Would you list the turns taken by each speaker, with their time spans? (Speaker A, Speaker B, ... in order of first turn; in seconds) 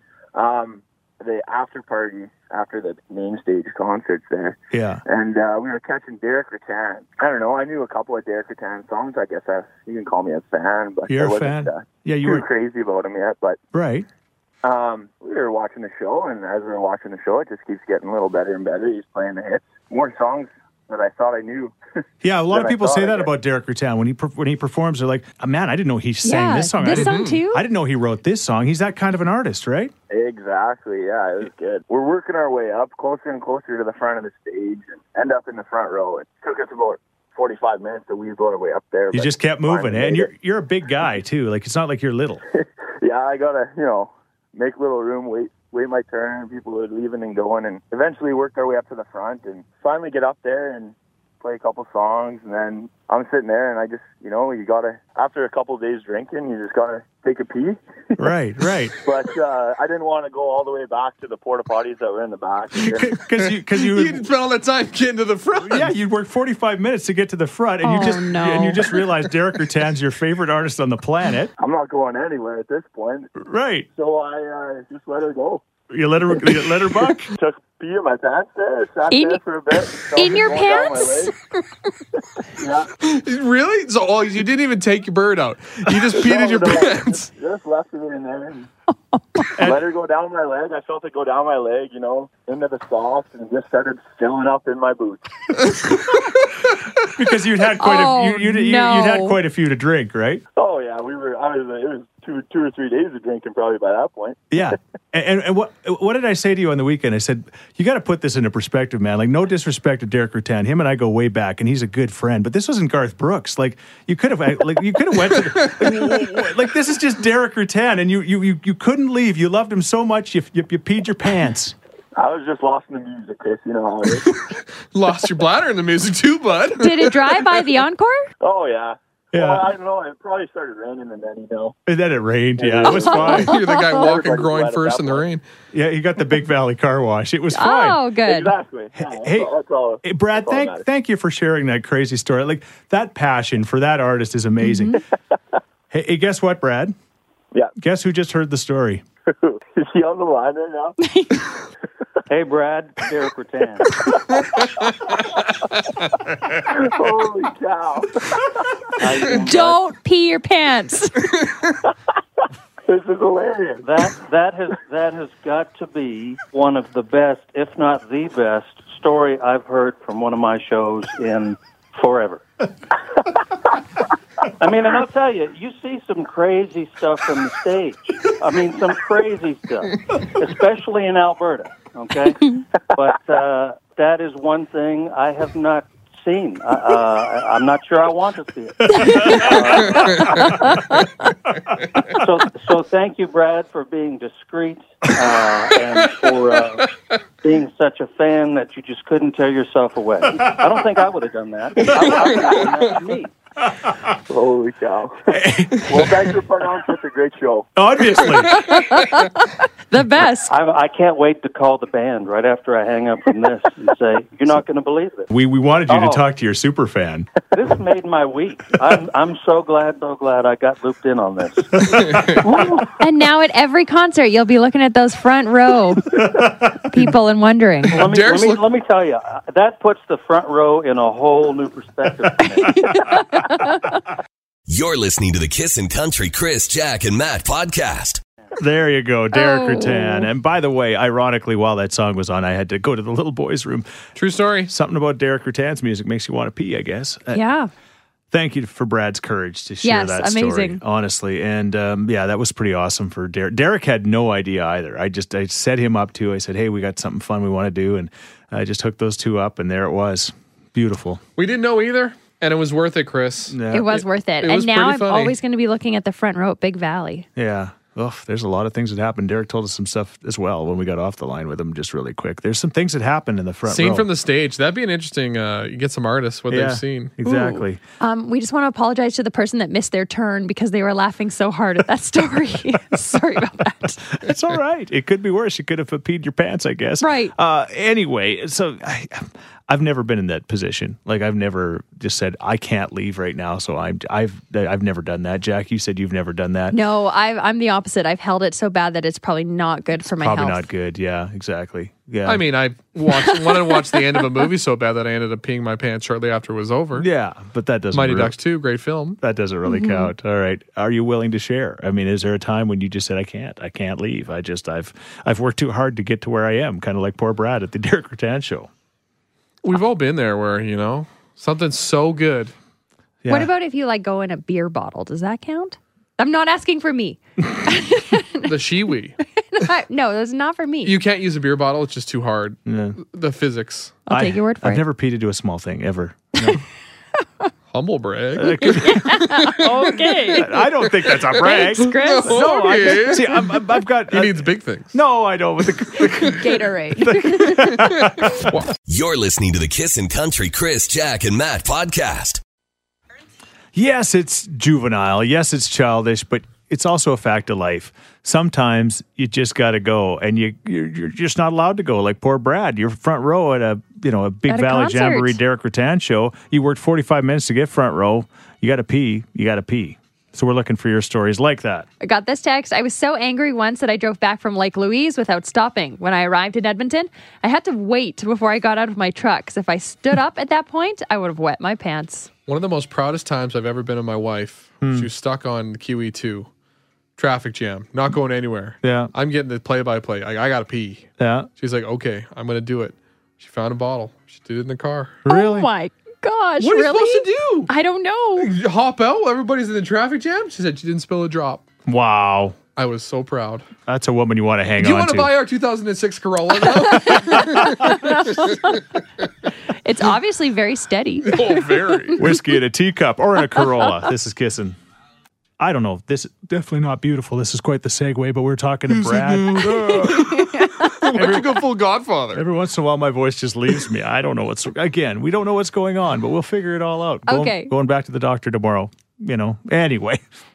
Speaker A: 0.3-13.6, 14.6-21.8, 22.5-23.3, 30.1-40.3, 42.6-58.2, 59.0-63.1, 71.6-73.3, 74.0-75.7, 77.3-81.3, 82.5-82.9, 86.1-88.7, 89.6-95.8, 100.6-104.8, 122.2-124.3, 128.4-131.8, 132.6-135.2, 138.3-140.8, 149.3-151.0, 153.9-154.5, 156.6-158.8, 162.9-163.9, 204.3-207.7
Speaker B: 4.7-5.0, 11.1-12.5, 13.7-14.1, 22.2-29.9, 39.1-42.4, 58.2-59.0, 62.8-64.2, 65.6-71.5, 73.4-73.9, 75.9-77.3, 89.5-89.8, 97.0-100.4, 104.5-121.8, 129.3-129.7, 131.9-133.6, 135.7-138.0, 139.0-139.5, 140.0-145.0, 145.9-146.9, 147.8-149.0, 205.3-206.2, 207.8-208.7, 215.3-217.3, 226.2-227.1, 238.6-243.9, 244.7-247.4, 248.3-261.2, 263.5-263.9, 267.4-274.1, 276.5-277.8, 284.2-296.8, 300.1-302.4, 307.0-308.4, 309.2-318.7, 323.2-323.5, 332.7-333.0, 334.1-336.6, 338.4-348.6, 353.7-371.9, 384.8-385.1, 388.8-389.1, 391.2-391.5, 395.2-395.7, 401.9-402.6, 403.9-405.3, 412.2-414.8, 415.6-420.4, 421.1-421.6, 422.3-430.2
Speaker C: 26.2-27.6, 67.8-68.8, 79.1-79.4, 80.0-81.3, 89.1-89.5, 97.8-99.4, 126.8-128.3, 133.2-133.9, 137.5-138.5, 144.6-145.0, 151.0-151.5, 159.3-161.2, 188.9-189.5, 190.4-191.1, 208.7-210.5, 222.9-228.1, 232.6-234.0, 239.3-240.3, 247.3-247.7, 249.8-250.8, 263.7-267.3, 277.2-284.0, 287.0-287.3, 296.7-300.7, 303.5-303.9, 309.7-310.1, 323.3-328.5, 329.4-331.0, 334.1-334.8, 338.5-343.3, 346.2-347.8, 364.5-365.4, 372.0-382.3, 395.3-398.6, 406.8-408.8, 409.8-412.2, 419.9-421.2, 427.3-427.7
Speaker D: 26.9-27.4, 63.7-65.9, 83.0-87.3, 115.6-116.3, 124.2-127.5, 133.2-135.4, 189.9-190.4, 221.9-222.3, 228.1-228.7, 244.2-244.7, 261.4-265.4, 273.7-277.1, 302.3-307.1, 307.9-309.2, 319.6-322.5, 328.4-329.2, 330.9-334.0, 337.7-339.8, 341.8-345.0, 346.0-346.4, 347.9-348.7, 382.5-386.5, 387.2-395.2, 396.6-397.7, 398.4-401.7, 402.8-403.7, 404.8-408.7, 411.3-412.2, 418.9-422.4
Speaker E: 152.3-154.1, 159.0-159.8, 163.8-172.4, 174.6-190.7, 192.0-203.3, 210.5-215.3, 215.9-216.3, 217.5-223.0, 227.9-233.0
Speaker F: 234.7-238.2, 348.9-352.4